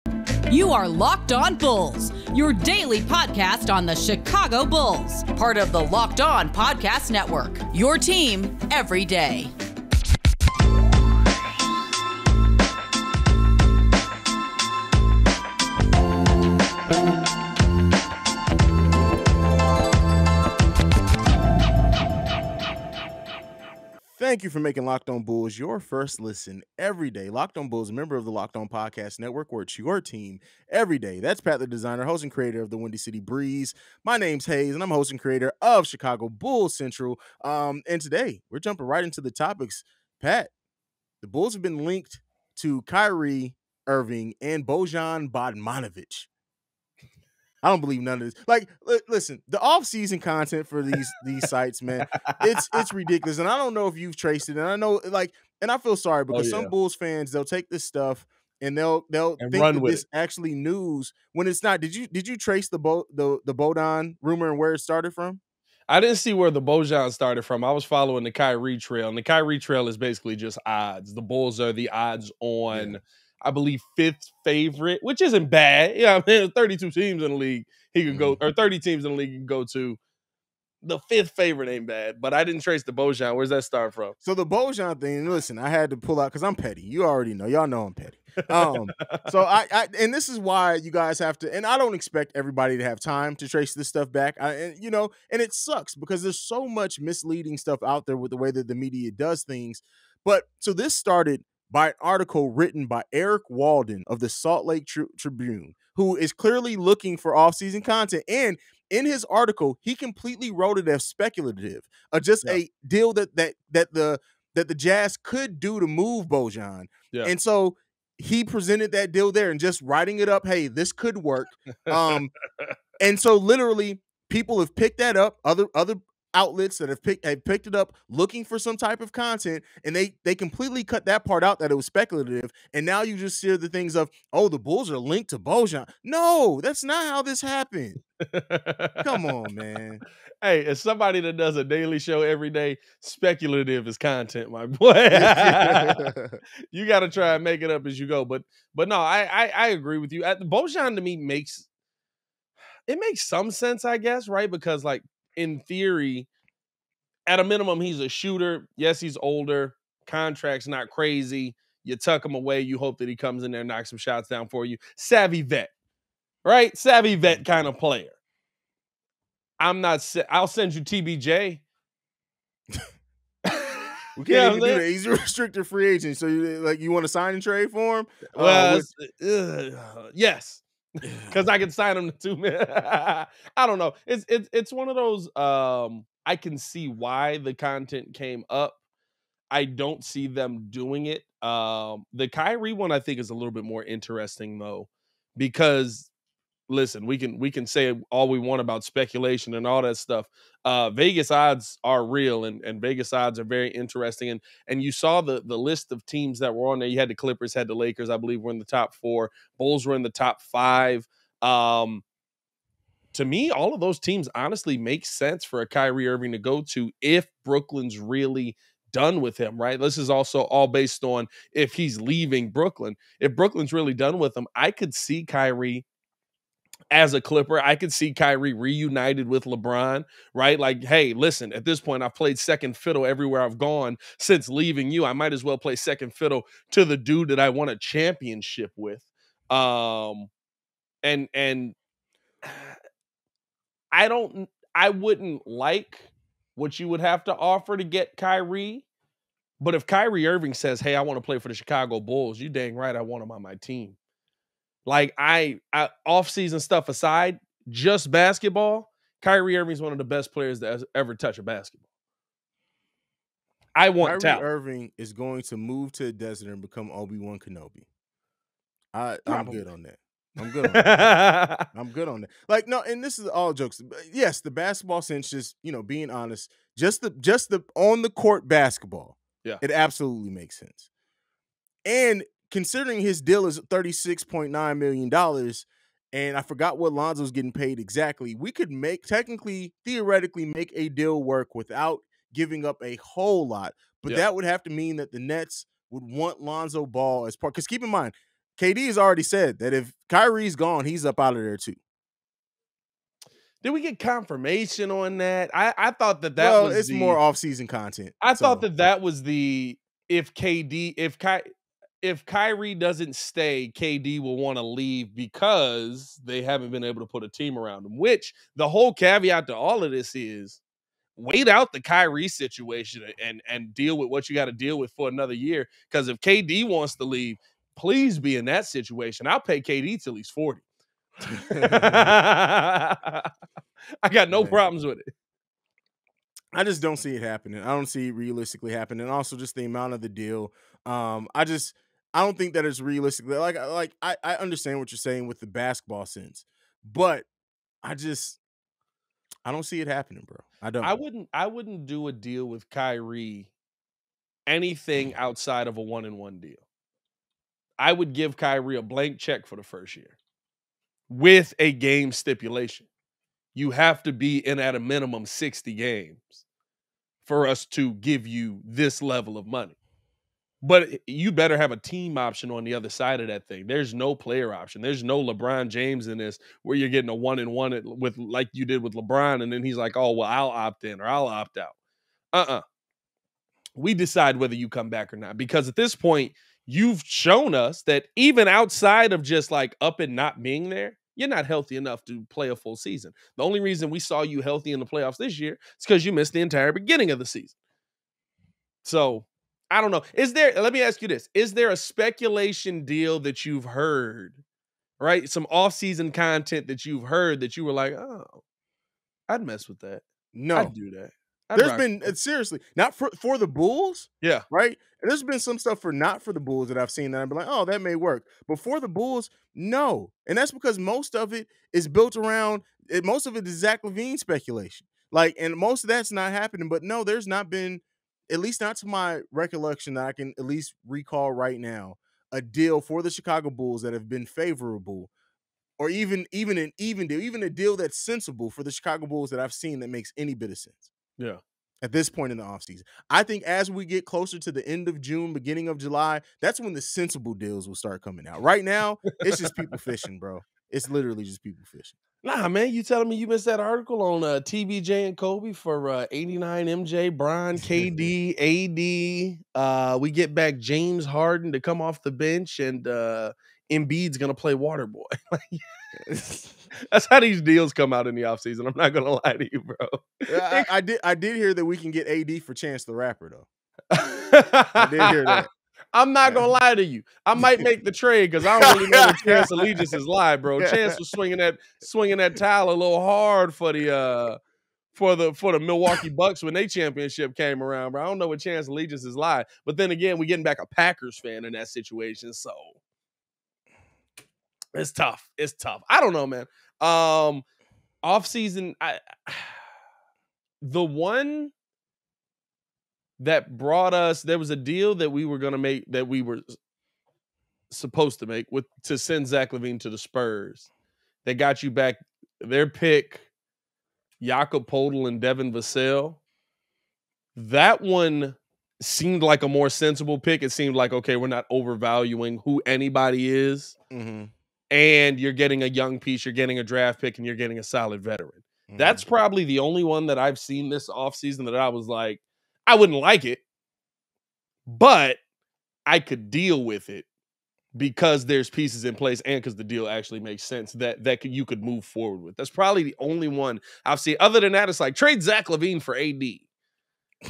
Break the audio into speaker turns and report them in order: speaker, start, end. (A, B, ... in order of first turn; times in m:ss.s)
0:00.5-0:09.5 A
0:24.2-0:40.5 B
0:41.2-0:46.3 B
0:47.6-1:05.4 B
0:52.3-0:52.6 C
0:56.3-0:56.7 C
0:59.4-1:00.0 C
1:05.9-1:20.0 C
1:12.7-1:13.0 B
1:18.1-1:18.4 B
1:20.8-1:24.1 C
1:24.2-2:02.3 B
1:28.7-1:29.2 C
2:01.9-2:02.7 C
2:03.0-2:18.0 B
2:18.2-2:19.2 C
2:19.0-2:20.0 B
2:20.4-2:26.0 C
2:25.1-2:26.4 B
2:26.7-2:31.7 C
2:32.9-2:36.3 C
2:37.3-2:45.7 C
2:46.4-2:48.1 C
2:49.6-2:51.6 C
2:54.2-2:58.9 B
2:54.3-2:54.8 C
2:58.3-3:00.6 C
3:01.0-3:01.3 B
3:01.2-3:08.8 C
3:09.5-3:16.1 C
3:16.7-3:32.0 C
3:33.1-3:45.8 C
3:46.9-4:00.3 C
4:01.0-4:01.7 C
4:02.4-4:02.7 C
4:03.9-4:08.8 C
4:09.6-4:14.0 C
4:14.8-4:21.8 C
4:23.7-4:24.4 C
4:24.0-4:27.8 B
4:28.9-4:40.9 B
4:29.3-4:29.6 C
4:30.6-4:31.7 C
4:41.8-5:01.8 B
5:03.6-5:07.2 C
5:06.4-5:08.7 B
5:08.2-5:11.4 C
5:12.0-5:20.6 C
5:21.2-5:30.6 C
5:31.3-5:32.1 B
5:31.3-5:33.3 C
5:34.0-5:35.0 C
5:34.3-5:34.6 B
5:36.5-5:47.2 B
5:47.8-5:48.4 B
5:49.4-5:51.0 B
5:50.8-5:53.5 C
5:54.5-5:56.6 C
5:57.8-6:00.2 C
6:01.1-6:02.9 C
6:03.5-6:06.4 C
6:07.2-6:09.8 C
6:10.6-6:21.7 C
6:22.3-6:22.6 C
6:23.8-6:37.5 C
6:38.8-6:44.4 C
6:45.0-6:48.4 C
6:49.3-6:52.1 C
6:50.3-6:50.7 B
6:51.5-7:15.1 B
7:15.8-7:20.9 B
7:21.8-7:32.0 B
7:32.2-7:45.6 C
7:37.6-7:38.1 B
7:46.0-7:46.5 B
7:46.7-7:50.7 C
7:50.3-7:53.5 B
7:53.9-8:04.4 C
7:54.8-7:55.5 B
7:57.4-7:57.6 B
7:58.6-7:59.9 B
8:00.6-8:01.0 B
8:04.9-8:12.8 C
8:14.7-8:17.4 C
8:18.0-8:19.6 C
8:20.6-8:21.5 C
8:23.2-8:26.6 C
8:27.7-8:30.7 C
8:31.2-8:33.3 C
8:34.2-8:36.2 C
8:37.3-8:43.8 C
8:43.9-8:44.3 B
8:44.7-8:53.4 C
8:48.7-8:49.0 B
8:54.7-8:55.2 C
8:55.9-8:57.0 C
8:57.7-9:06.4 C